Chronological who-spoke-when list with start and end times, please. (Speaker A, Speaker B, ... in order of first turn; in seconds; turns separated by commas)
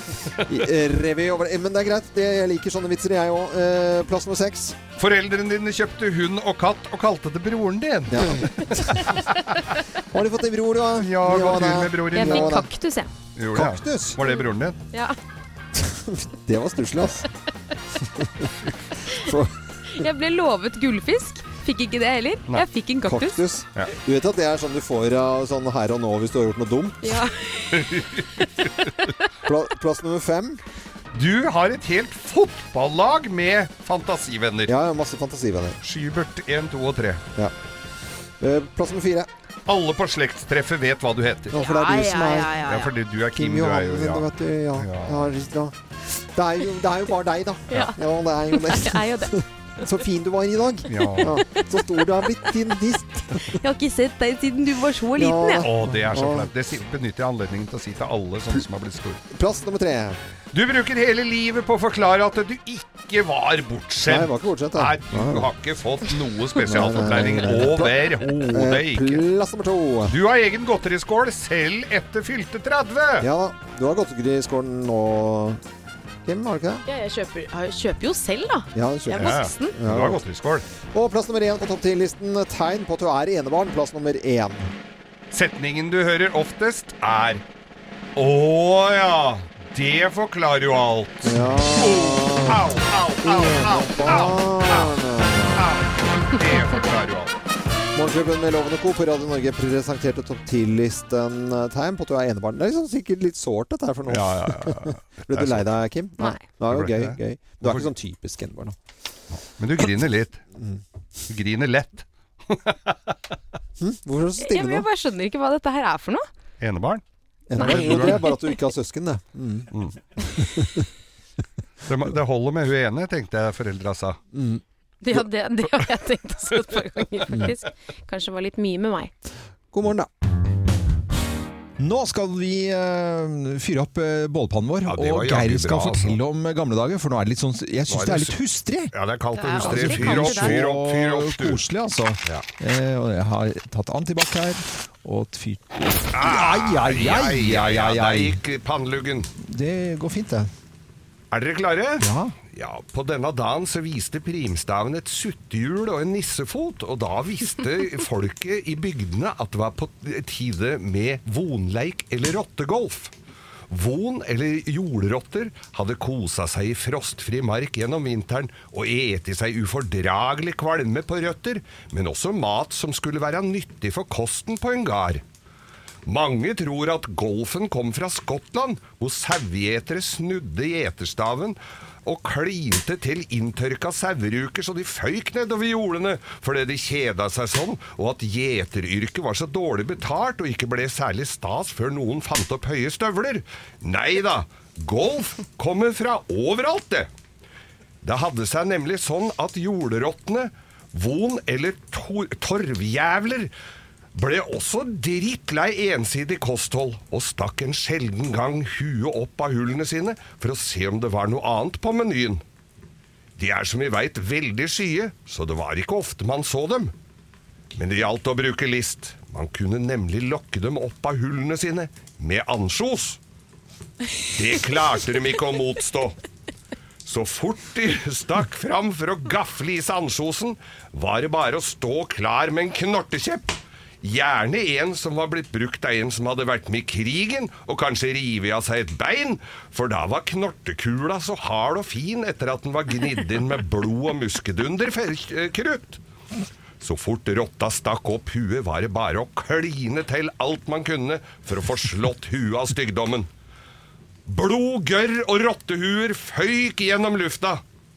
Speaker A: 0.4-4.8, Speaker B: 5.0-9.6, Speaker A: 8.1-9.1, Speaker A: 10.1-12.7, Speaker B: 11.0-12.6, Speaker C: 12.1-13.1, Speaker B: 13.4-14.8, Speaker A: 13.6-14.2, Speaker C: 14.9-15.2, Speaker A: 15.8-17.3, Speaker A: 18.2-18.5, Speaker A: 19.1-19.5, Speaker C: 20.0-23.4, Speaker A: 23.1-27.2, Speaker C: 27.0-28.0, Speaker B: 27.7-28.9, Speaker A: 29.4-30.6, Speaker B: 31.1-34.7, Speaker A: 34.7-35.8, Speaker B: 35.8-37.2, Speaker A: 38.4-39.3, Speaker B: 39.7-41.5, Speaker A: 41.5-42.5, Speaker C: 41.6-42.9, Speaker B: 42.6-45.2, Speaker A: 43.3-53.6, Speaker C: 47.7-48.0, Speaker C: 48.5-49.3, Speaker B: 50.9-51.4, Speaker C: 51.2-52.4, Speaker C: 53.5-55.6, Speaker A: 55.1-56.5, Speaker B: 55.6-59.2, Speaker A: 59.3-60.2, Speaker B: 60.5-69.2, Speaker A: 64.0-65.5, Speaker A: 66.6-70.2, Speaker B: 70.1-73.3, Speaker A: 73.2-75.6, Speaker A: 76.3-76.8, Speaker C: 76.9-79.8, Speaker A: 78.8-80.2, Speaker B: 79.2-80.7, Speaker A: 80.9-84.7, Speaker B: 85.3-87.4, Speaker B: 88.2-94.9, Speaker A: 91.2-92.6, Speaker A: 93.2-95.7, Speaker B: 95.6-97.3, Speaker A: 98.0-108.8, Speaker B: 104.1-105.7, Speaker B: 106.7-107.9, Speaker B: 109.6-110.4, Speaker B: 111.3-113.1, Speaker A: 113.8-114.9, Speaker C: 114.4-116.3, Speaker B: 116.6-117.0, Speaker A: 117.5-119.7, Speaker B: 117.6-118.2, Speaker C: 117.6-118.4, Speaker B: 119.7-120.0, Speaker A: 120.3-120.8, Speaker B: 121.9-124.2, Speaker A: 124.3-124.6, Speaker C: 125.0-129.1, Speaker A: 127.3-127.5, Speaker A: 129.7-130.1, Speaker A: 131.8-138.9, Speaker B: 134.9-136.2, Speaker B: 137.9-138.4, Speaker B: 138.9-141.6, Speaker C: 139.4-140.6, Speaker A: 139.6-148.4, Speaker B: 146.1-149.3, Speaker A: 149.4-150.5, Speaker B: 151.3-163.1, Speaker A: 152.0-152.3, Speaker B: 163.7-175.2, Speaker B: 176.1-197.1, Speaker B: 198.0-203.5, Speaker B: 204.1-212.4, Speaker B: 213.4-216.9, Speaker B: 217.7-223.2, Speaker B: 224.3-226.2, Speaker B: 227.1-246.0, Speaker B: 246.8-253.3, Speaker B: 254.3-257.6